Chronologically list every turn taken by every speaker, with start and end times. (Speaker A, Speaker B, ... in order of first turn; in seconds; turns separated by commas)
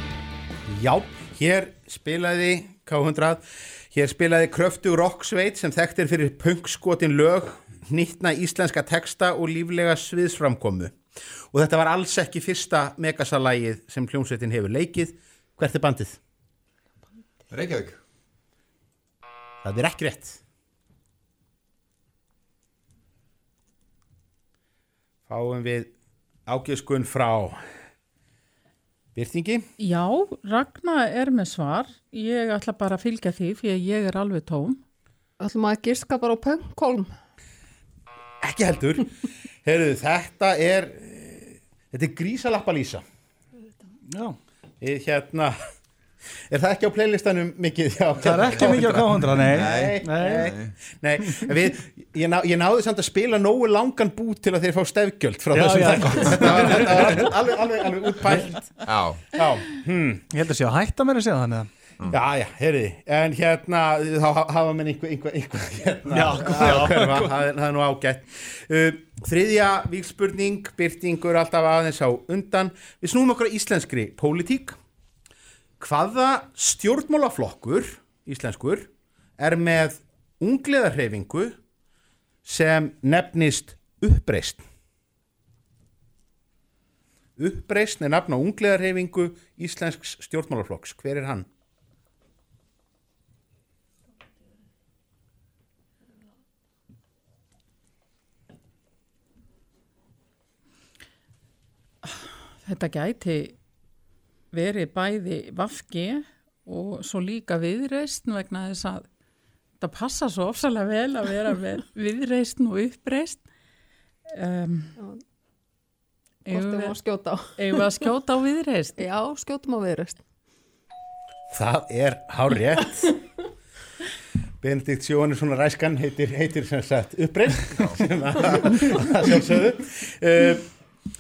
Speaker A: 0.7-11.0, Speaker A: 11.5-16.2, Speaker B: 17.5-18.0, Speaker A: 19.6-20.4, Speaker A: 25.3-25.9, Speaker A: 26.5-27.6, Speaker A: 29.1-29.7, Speaker C: 29.8-34.8, Speaker D: 35.4-37.1, Speaker A: 38.4-39.0, Speaker A: 39.6-43.0, Speaker E: 44.0-44.4, Speaker A: 44.8-45.5, Speaker A: 46.5-58.6, Speaker E: 48.2-50.5, Speaker B: 48.6-50.7, Speaker E: 55.5-57.3, Speaker B: 58.9-59.2, Speaker A: 59.3-60.2, Speaker E: 60.3-61.7, Speaker A: 62.1-74.8, Speaker E: 66.1-67.3, Speaker A: 75.8-81.5, Speaker A: 82.4-84.6, Speaker A: 87.4-91.5, Speaker C: 102.0-103.5, Speaker C: 104.5-109.1, Speaker C: 109.8-113.4, Speaker C: 114.3-114.9, Speaker C: 116.5-117.0, Speaker D: 116.5-117.9, Speaker C: 117.6-119.0, Speaker D: 119.0-120.2, Speaker A: 121.5-123.1, Speaker A: 124.6-130.7